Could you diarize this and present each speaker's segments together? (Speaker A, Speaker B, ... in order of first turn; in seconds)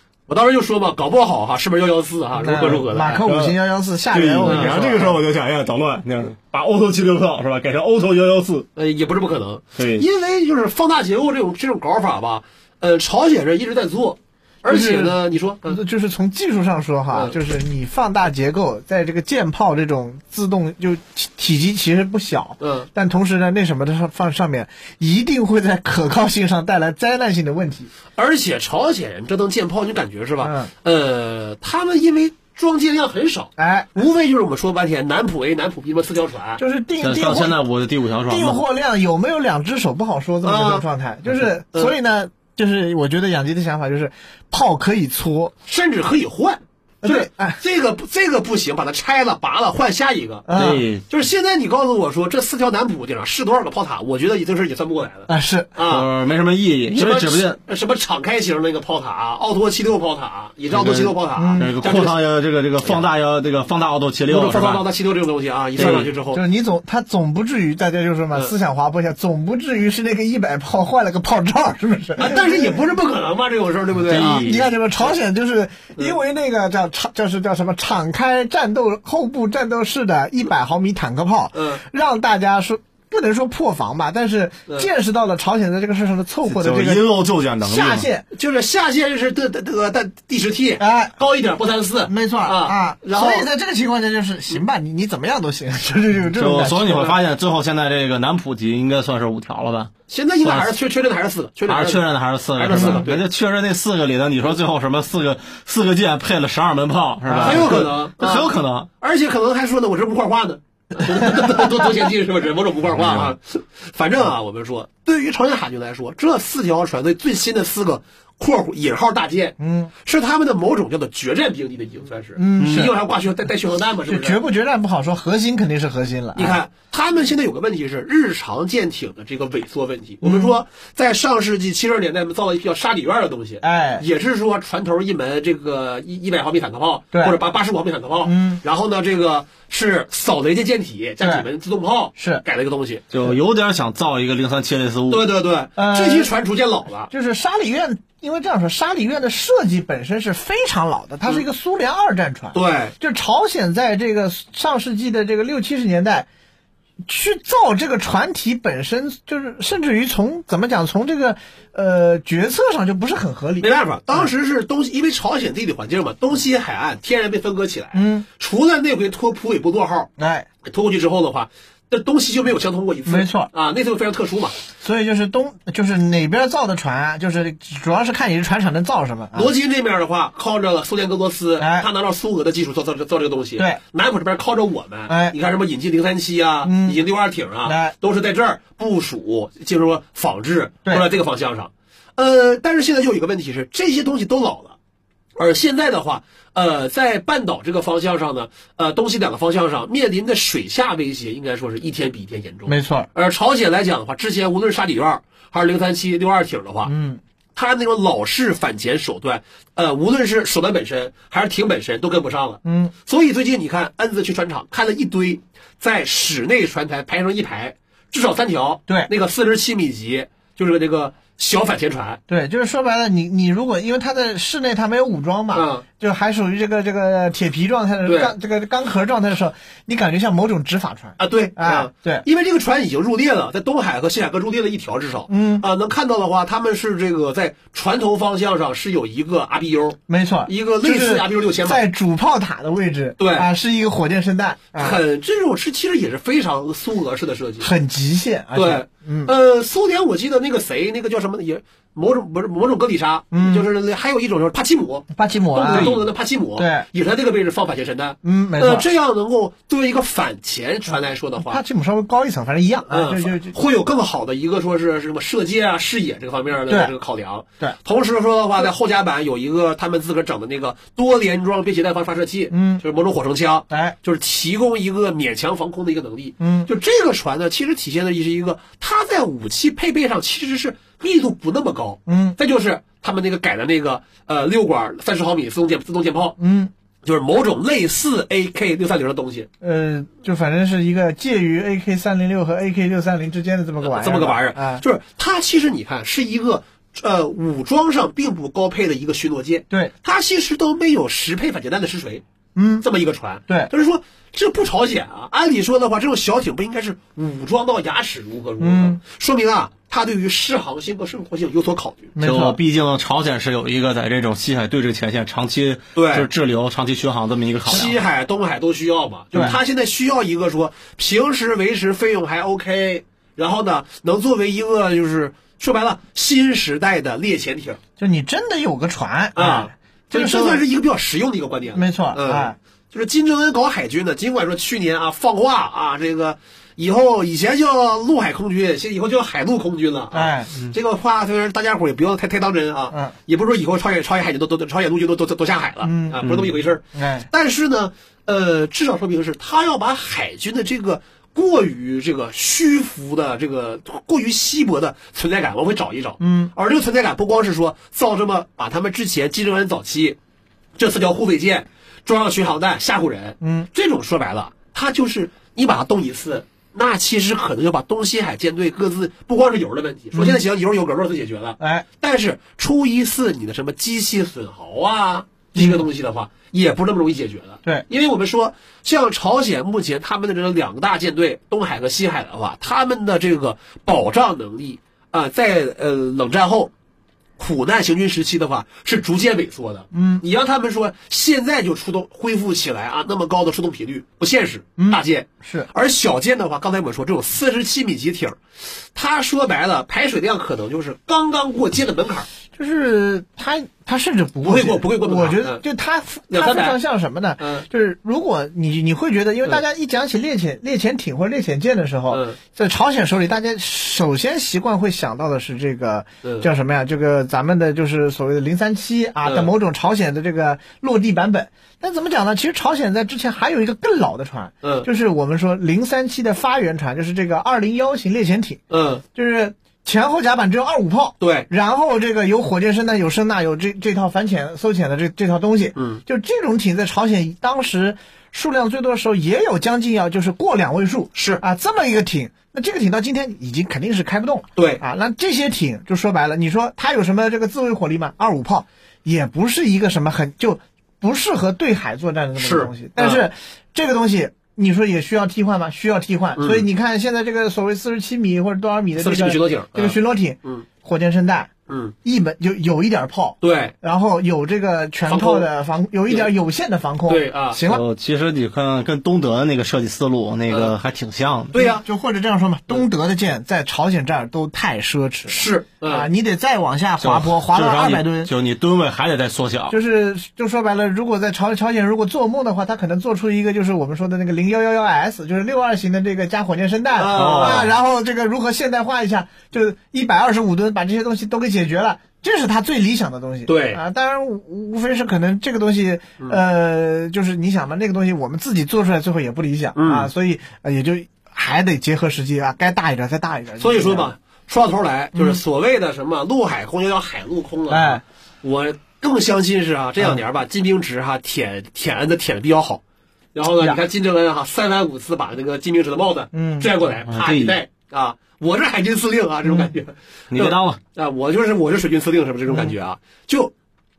Speaker A: 0.3-3.5, 4.4-4.8, 8.8-15.8, 22.6-22.9, 28.1-36.6, 40.4-40.8, 45.7-50.5, 51.1-56.1, 56.9-62.2, 64.3-66.4, 72.2-75.1, 81.5-81.8, 88.3-93.5, 100.1-103.2, 107.4-124.4, 126.3-143.0, 145.1-147.1, 152.5-152.9, 163.6-170.1, 170.6-174.6, 179.3-194.8, 195.4-206.9, 207.6-222.2, 225.5-225.8, 228.1-228.3, 231.2-241.8, 243.2-243.5, 244.8-247.7, 248.5-261.6, 262.9-286.4, 287.1-289.5, 293.8-302.2, 302.8-312.1, 315.9-316.3, 317.7-327.8, 329.4-360.2, 360.8-386.7, 387.4-398.4, 398.9-402.3, 404.4-405.6, 406.3-406.8, 407.4-407.6, 412.1-412.4, 419.2-419.5, 428.7-429.0, 431.2-431.5, 435.8-436.0, 441.1-441.4, 444.6-444.8, 452.4-453.2, 456.4-456.7, 459.0-460.7, 461.7-461.9, 463.4-463.7, 465.1-465.5, 467.1-467.6, 470.5-470.7, 471.5-471.8, 475.3-476.1, 486.9-487.7, 493.4-493.8, 499.8-500.1, 503.6-512.8, 513.4-523.5
Speaker B: 2.4-5.2, 14.7-27.9, 30.4-30.7, 33.6-34.0, 36.6-37.6, 38.2-45.5, 47.0-47.6, 50.5-50.9, 55.3-55.7, 61.4-61.7, 65.8-72.8, 74.1-87.0, 87.6-88.3, 90.8-91.1, 92.1-97.1, 102.7-103.0, 107.3-107.7, 119.6-119.9, 122.4-122.9, 124.1-126.6, 130.2-130.6, 133.6-134.1, 138.2-138.6, 142.2-142.4, 145.8-146.3, 147.1-156.3, 157.1-164.3, 167.9-168.3, 170.2-170.5, 173.1-173.5, 174.8-179.5, 181.6-181.9, 185.1-185.3, 186.6-187.0, 187.6-187.9, 202.7-203.1, 206.9-207.2, 212.6-212.9, 222.3-232.2, 235.3-235.6, 240.1-245.0, 247.6-249.3, 253.3-253.7, 255.1-256.0, 256.6-256.9, 258.2-258.9, 261.4-263.5, 272.5-272.8, 273.7-273.9, 276.4-276.7, 282.1-282.4, 286.4-286.7, 289.6-294.8, 302.6-302.9, 308.6-309.0, 312.2-312.6, 328.0-330.6, 331.8-332.6, 340.1-340.5, 345.8-346.3, 346.9-347.3, 356.2-356.5, 363.4-363.7, 370.1-370.4, 371.6-371.9, 375.6-375.8, 389.9-390.2, 394.8-395.7, 402.6-428.6, 429.1-461.5, 462.1-467.8, 471.6-478.3, 479.7-504.1, 505.1-505.4, 507.7-508.0, 516.3-516.7, 519.5-519.7, 522.5-522.7
Speaker C: 3.2-3.5, 4.1-8.7, 9.8-10.1, 37.0-38.6, 50.5-51.0, 55.8-57.6, 60.7-64.8, 65.8-66.1, 74.1-74.7, 86.5-88.1, 96.3-99.9, 100.4-100.7, 101.7-108.9, 113.0-113.3, 122.6-122.9, 143.1-145.3, 255.7-256.0, 312.2-318.0, 467.7-471.6, 477.0-479.8, 487.1-487.7, 517.1-517.6, 520.3-520.8